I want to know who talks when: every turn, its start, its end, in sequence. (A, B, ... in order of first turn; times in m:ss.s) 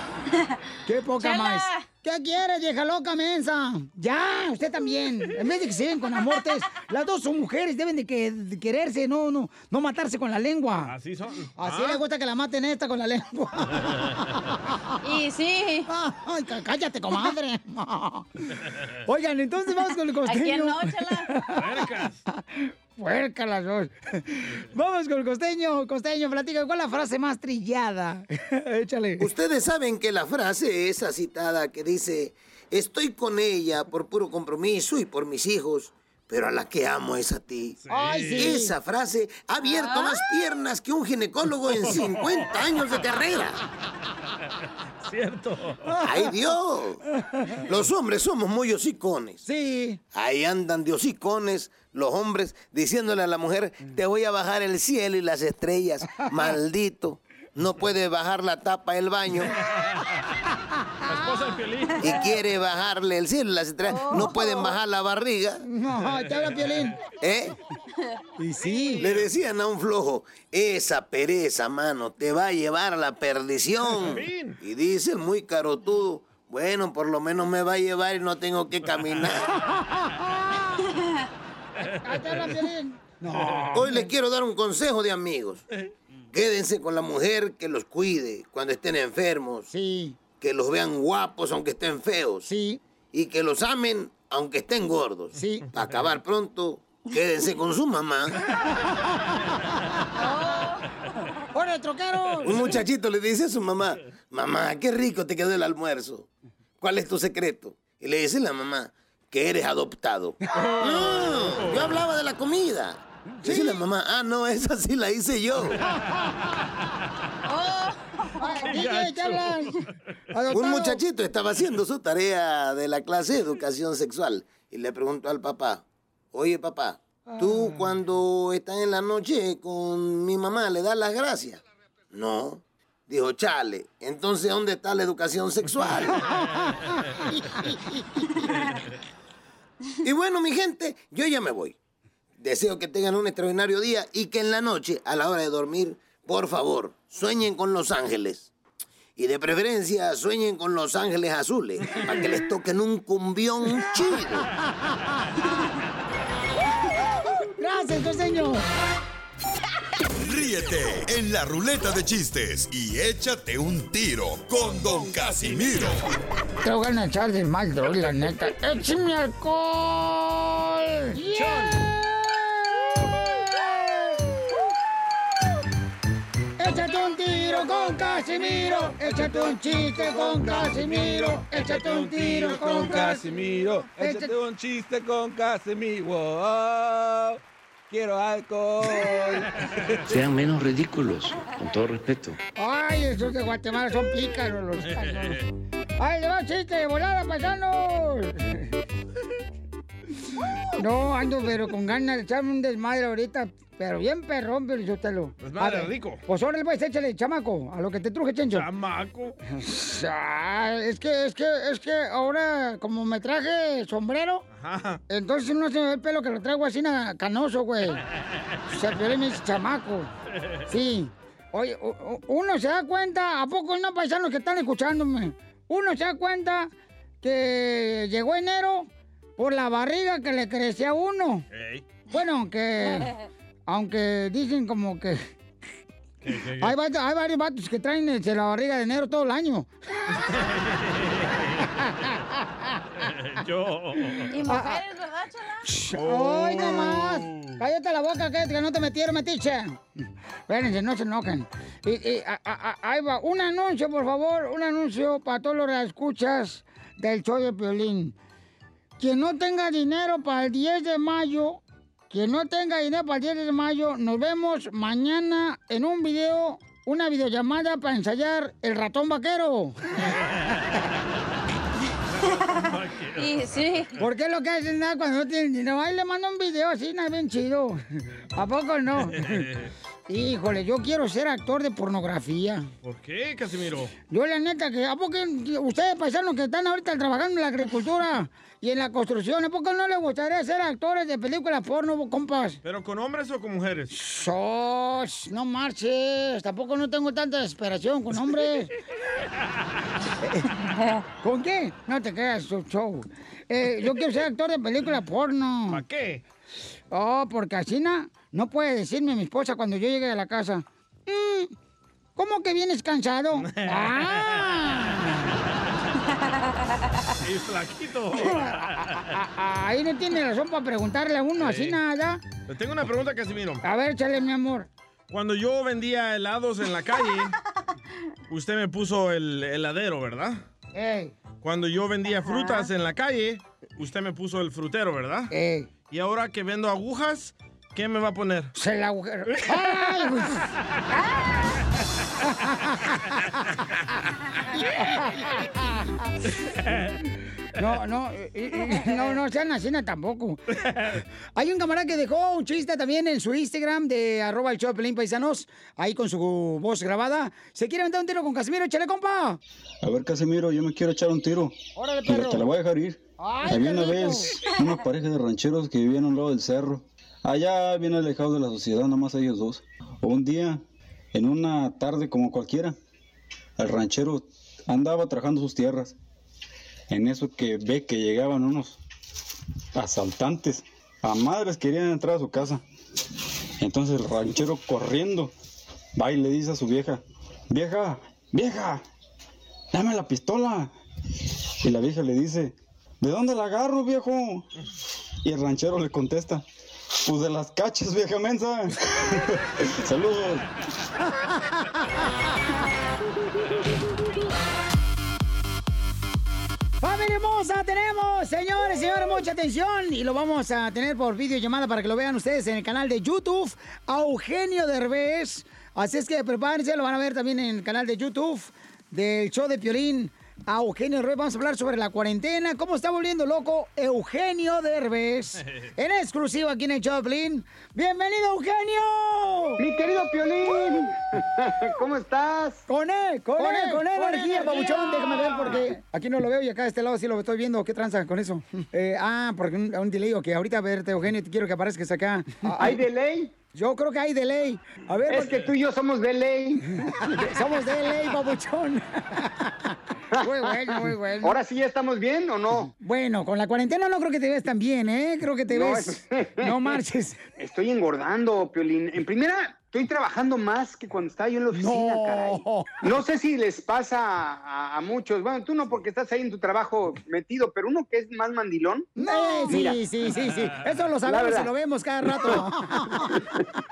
0:00.8-0:10.9 A
0:01.2-0:01.8 B
0:10.8-0:12.0 C
0:11.6-0:14.8 A
0:13.8-0:14.2 C
0:15.0-0:15.9 B
0:15.9-0:18.3 A
0:19.1-0:21.6 A
0:20.2-0:21.4 B
0:21.5-0:22.2 C
0:22.4-0:29.3 A
0:29.2-0:37.8 D
0:37.8-0:38.5 C
0:37.9-0:38.7 A
0:38.3-0:43.6 D
0:41.8-0:42.3 C
0:45.0-0:45.9 C
0:46.0-0:47.0 D
0:47.7-0:49.4 D
0:49.4-0:50.0 A
0:50.1-0:59.5 D
1:01.0-1:02.2 C
1:02.0-1:05.6 D
1:03.9-1:04.8 B
1:05.6-1:07.0 A
1:07.2-1:07.5 D
1:08.4-1:09.0 A
1:08.6-1:09.3 C
1:09.0-1:19.4 D
1:14.0-1:14.6 C
1:20.2-1:20.6 A
1:21.8-1:22.5 C
1:22.0-1:24.0 A
1:23.2-1:23.8 C
1:23.7-1:25.6 D
1:26.3-1:29.7 D
1:29.7-1:30.2 A
1:30.3-1:32.4 D
1:32.4-1:32.8 A
1:33.1-1:38.4 D
1:35.3-1:35.7 A
1:40.2-1:40.8 B
1:41.5-1:42.7 A
1:42.4-1:46.3 D
1:46.8-1:55.8 D
1:50.5-1:52.0 C
1:53.4-1:53.8 A
1:57.4-1:58.6 B
1:58.4-1:59.7 A
1:58.6-1:59.8 C
2:00.3-2:01.0 A
2:00.5-2:11.6 D
2:12.1-2:16.2 D
2:20.0-2:21.8 D
2:22.4-2:28.5 D
2:29.2-2:34.4 D
2:37.3-2:38.6 A
2:40.2-2:46.0 E
2:46.6-2:54.2 A
2:56.6-3:03.2 A
2:59.0-3:09.9 F
3:04.0-3:04.3 A
3:10.1-3:12.4 G
3:12.6-3:15.4 A
3:14.8-3:15.5 C
3:16.0-3:18.7 A
3:20.7-3:28.7 A
3:25.4-3:26.2 C
3:28.5-3:29.4 C
3:29.5-3:34.4 A
3:34.5-3:35.0 C
3:35.1-3:38.0 A
3:38.7-3:40.1 A
3:40.7-3:51.4 A
3:51.5-3:51.8 C
3:52.1-3:53.1 A
3:53.7-3:55.2 A
3:56.2-3:56.7 C
3:56.6-3:59.7 A
4:00.3-4:01.8 C
4:03.0-4:04.4 C
4:04.3-4:05.7 B
4:04.4-4:04.8 A
4:05.6-4:18.2 A
4:05.9-4:07.6 C
4:19.0-4:29.8 A
4:30.1-4:30.8 C
4:32.1-4:33.9 C
4:33.2-4:33.9 B
4:34.0-4:37.8 A
4:38.4-4:39.5 A
4:39.2-4:39.7 C
4:40.1-4:42.7 A
4:42.8-4:43.9 C
4:44.1-4:52.6 A
4:52.6-4:53.9 C
4:53.9-4:58.7 A
5:01.2-5:05.8 A
5:05.7-5:06.2 C
5:06.9-5:11.5 A
5:12.2-5:15.3 A
5:13.4-5:16.0 C
5:17.2-5:19.0 C
5:18.2-5:22.2 A
5:21.4-5:21.8 C
5:22.5-5:23.6 C
5:23.6-5:24.7 A
5:25.1-5:27.4 C
5:28.3-5:30.4 C
5:30.7-5:31.1 A
5:31.4-5:35.3 C
5:32.2-5:32.7 B
5:35.3-5:35.7 A
5:35.9-5:38.5 C
5:38.5-5:40.5 A
5:39.5-5:39.7 C
5:42.5-5:42.9 A
5:44.6-5:46.0 A
5:47.6-5:50.4 A
5:50.7-5:51.0 C
5:51.4-5:59.4 A
5:59.8-6:01.5 H
6:01.8-6:02.4 A
6:02.0-6:10.6 H
6:03.2-6:04.4 A
6:11.1-6:12.8 H
6:13.6-6:15.9 H
6:16.9-6:18.8 H
6:19.7-6:22.6 H
6:23.6-6:25.3 H
6:26.0-6:28.8 H
6:29.7-6:30.7 H
6:31.6-6:34.4 H
6:35.2-6:36.4 H
6:37.0-6:38.7 H
6:39.8-6:40.4 H
6:46.8-7:09.6 A
7:09.6-7:12.6 I
7:12.7-7:22.8 A
7:14.1-7:15.6 C
7:22.5-7:23.3 I
7:23.5-7:25.2 A
7:25.1-7:27.1 I
7:25.2-7:25.5 C
7:27.2-7:31.4 A
7:30.2-7:32.7 I
7:32.6-7:37.2 A
7:35.5-7:36.7 I
7:37.4-7:48.9 I
7:41.5-7:42.7 A
7:49.0-7:53.1 A
7:49.4-7:49.8 I
7:51.0-7:51.5 I
7:52.1-7:52.4 I
7:53.0-7:53.2 I